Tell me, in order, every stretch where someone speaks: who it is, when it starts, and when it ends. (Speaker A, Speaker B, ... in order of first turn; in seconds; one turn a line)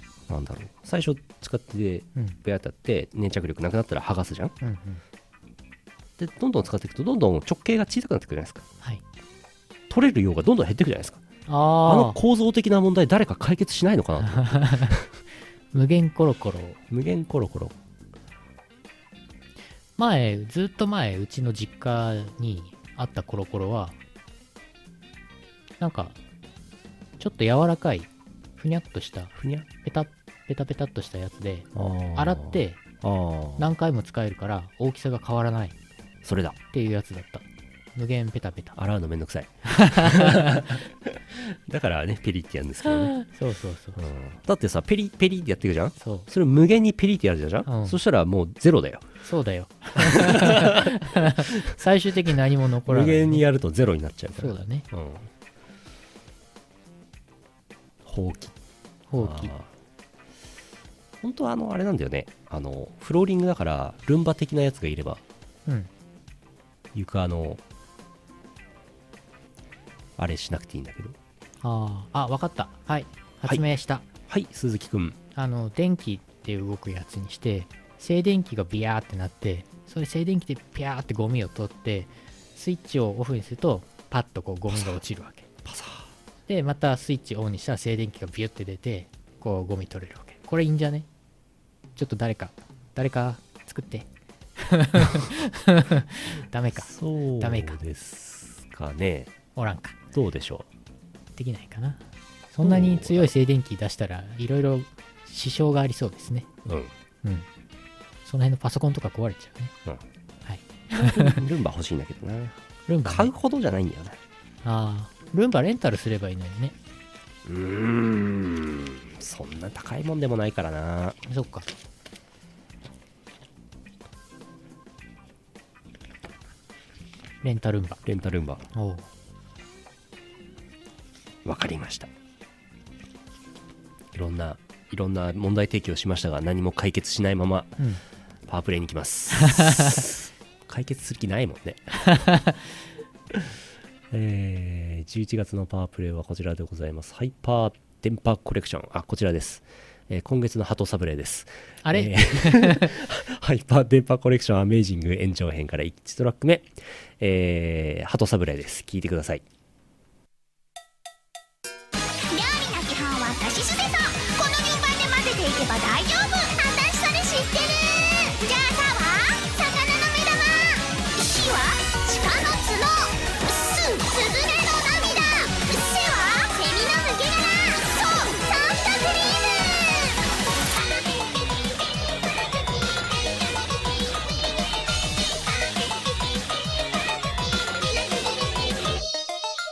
Speaker A: 0.3-4.5
Speaker B: 4.6-5.0
Speaker A: 6.2-8.7
Speaker A: 9.9-11.2
Speaker B: 11.5-12.2
Speaker A: 11.8-15.1
Speaker B: 14.2-15.0
Speaker B: 15.7-16.8
Speaker A: 16.9-17.8
Speaker B: 20.0-24.0
Speaker B: 25.8-26.2
Speaker B: 27.2-32.8
Speaker A: 29.4-29.7
Speaker A: 31.7-33.7
Speaker B: 33.6-35.8
Speaker A: 36.2-36.6
Speaker B: 36.7-38.8
Speaker A: 38.8-43.2
Speaker B: 39.7-40.7
Speaker B: 43.2-44.0
Speaker A: 44.0-49.1
Speaker B: 46.0-46.3
Speaker B: 47.6-48.0
Speaker B: 49.2-53.4
Speaker A: 50.0-50.9
Speaker A: 52.9-55.3
Speaker B: 54.4-54.9
Speaker A: 58.0-58.5
Speaker B: 59.1-59.5
Speaker A: 59.2-59.7
Speaker A: 61.2-65.2
Speaker A: 66.9-67.6
Speaker A: 70.2-71.2
Speaker B: 71.6-74.0
Speaker A: 74.3-75.2
Speaker B: 75.3-85.5
Speaker A: 85.7-86.1
Speaker B: 86.5-91.1
Speaker B: 92.0-97.8
Speaker A: 96.7-99.3
Speaker B: 99.5-100.0
Speaker A: 100.1-100.7
Speaker B: 101.3-106.5
Speaker A: 102.6-103.3
Speaker A: 106.6-106.9
Speaker B: 108.2-109.7
Speaker B: 110.4-111.4
Speaker A: 110.9-114.2
Speaker B: 112.9-113.3
Speaker B: 114.6-116.8
Speaker A: 117.4-121.2
Speaker B: 121.2-121.7
Speaker B: 127.4-128.0
Speaker A: 128.0-128.7
Speaker B: 128.7-129.1
Speaker A: 131.4-132.1
Speaker A: 134.1-137.8
Speaker A: 138.5-142.0
Speaker B: 139.5-140.0
Speaker B: 142.1-142.5
Speaker A: 144.1-159.4
Speaker B: 151.8-152.9
Speaker C: 162.3-180.2
Speaker C: 181.1-184.4
Speaker C: 185.4-186.3
Speaker C: 187.6-188.9